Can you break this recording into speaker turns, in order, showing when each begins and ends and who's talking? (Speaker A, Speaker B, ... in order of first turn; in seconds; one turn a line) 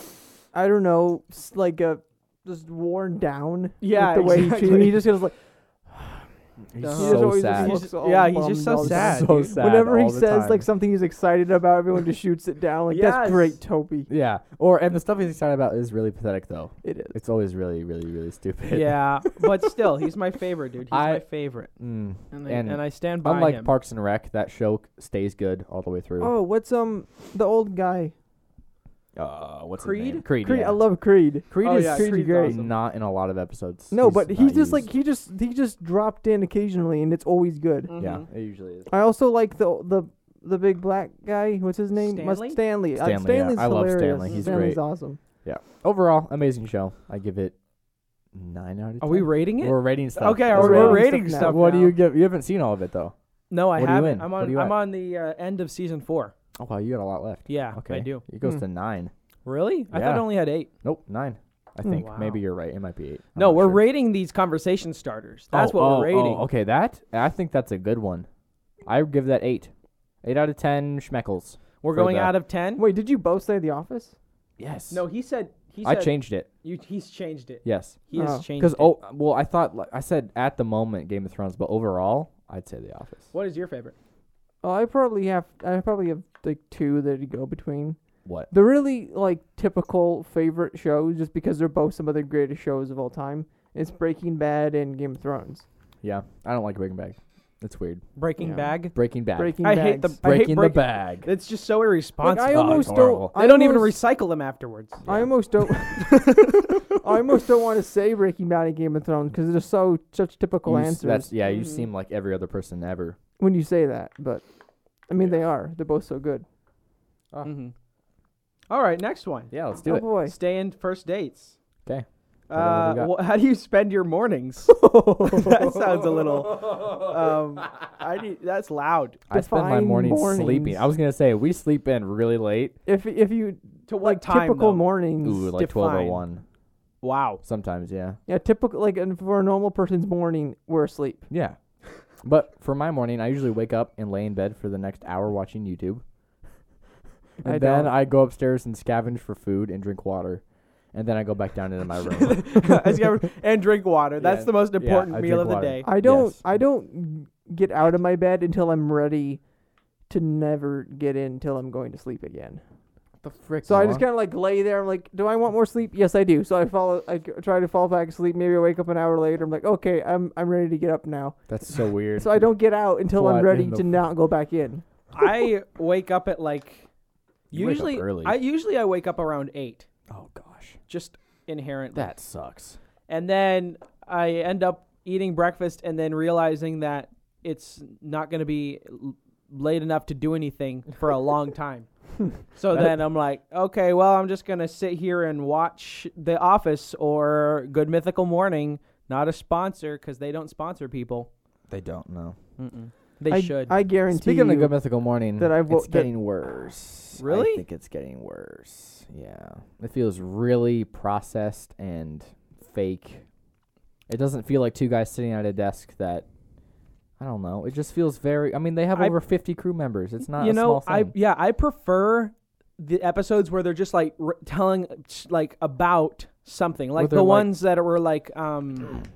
Speaker A: 0.5-5.3
Speaker B: 3.8-5.1
Speaker C: 6.7-7.8
Speaker B: 6.8-9.5
Speaker A: 6.9-14.1
Speaker C: 8.7-10.7
Speaker B: 12.9-13.6
Speaker C: 14.1-19.7
Speaker A: 16.8-17.1
Speaker B: 18.7-21.7
Speaker C: 20.9-21.2
Speaker C: 21.8-26.3
Speaker B: 22.3-23.7
Speaker A: 26.2-28.1
Speaker C: 29.1-30.9
Speaker B: 29.8-30.2
Speaker A: 30.4-32.6
Speaker C: 31.5-34.9
Speaker B: 31.6-32.7
Speaker A: 33.9-37.9
Speaker B: 37.9-38.2
Speaker C: 38.0-38.9
Speaker A: 38.9-45.2
Speaker B: 42.0-42.6
Speaker C: 43.0-44.8
Speaker B: 44.3-44.6
Speaker C: 45.4-47.5
Speaker C: 48.3-53.1
Speaker B: 49.0-52.0
Speaker A: 50.5-51.6
Speaker B: 53.5-56.3
Speaker C: 53.7-54.8
Speaker C: 56.6-59.1
Speaker B: 57.5-58.2
Speaker B: 59.4-60.7
Speaker C: 59.9-63.8
Speaker B: 61.9-62.4
Speaker B: 63.4-66.5
Speaker C: 65.5-68.3
Speaker C: 68.8-69.7
Speaker C: 70.2-72.4
Speaker B: 71.8-72.8
Speaker A: 72.8-74.2
Speaker C: 74.6-75.0
Speaker B: 74.9-78.9
Speaker C: 75.8-76.5
Speaker C: 77.6-78.0
Speaker A: 78.1-78.5
Speaker C: 78.5-83.3
Speaker B: 83.3-83.9
Speaker A: 84.6-88.0
Speaker C: 88.2-88.5
Speaker A: 88.5-95.6
Speaker C: 96.0-98.0
Speaker B: 98.2-99.0
Speaker A: 98.4-98.8
Speaker C: 98.9-99.6
Speaker A: 99.3-100.2
Speaker B: 99.6-105.0
Speaker C: 100.2-101.3
Speaker A: 102.2-104.0
Speaker C: 102.5-103.3
Speaker C: 105.0-105.3
Speaker A: 105.1-106.4
Speaker B: 105.9-106.8
Speaker A: 106.9-111.3
Speaker C: 110.6-113.2
Speaker B: 111.4-111.8
Speaker A: 113.4-114.4
Speaker A: 115.1-116.5
Speaker B: 117.4-117.7
Speaker B: 118.7-119.5
Speaker C: 119.5-120.1
Speaker A: 119.8-120.3
Speaker B: 120.2-121.5
Speaker C: 121.8-123.1
Speaker B: 122.5-129.2
Speaker C: 129.3-132.8
Speaker A: 129.3-130.8
Speaker A: 132.8-135.5
Speaker B: 133.9-134.9
Speaker C: 135.2-136.4
Speaker B: 135.5-136.2
Speaker B: 137.0-137.4
Speaker C: 137.4-138.2
Speaker A: 138.3-141.3
Speaker C: 141.3-141.6
Speaker C: 142.1-146.0
Speaker C: 147.4-152.8
Speaker A: 147.4-147.9
Speaker B: 152.0-155.9
Speaker C: 154.2-156.4
Speaker A: 155.8-159.4
Speaker A: 160.1-162.6
Speaker C: 163.2-164.0
Speaker A: 163.6-171.5
Speaker C: 171.5-172.3
Speaker A: 172.1-174.8
Speaker C: 173.1-173.9
Speaker B: 175.1-176.9
Speaker C: 177.5-178.4
Speaker B: 177.5-179.9
Speaker C: 180.1-180.8
Speaker B: 180.9-182.1
Speaker C: 181.9-182.8
Speaker B: 183.1-191.9
Speaker B: 192.5-201.3
Speaker C: 201.7-202.4
Speaker B: 202.6-203.7
Speaker A: 203.3-204.8
Speaker C: 204.1-213.2
Speaker A: 205.4-206.1
Speaker B: 207.2-207.6
Speaker C: 214.1-216.2
Speaker C: 217.2-221.1
Speaker B: 220.3-229.0
Speaker C: 226.9-227.6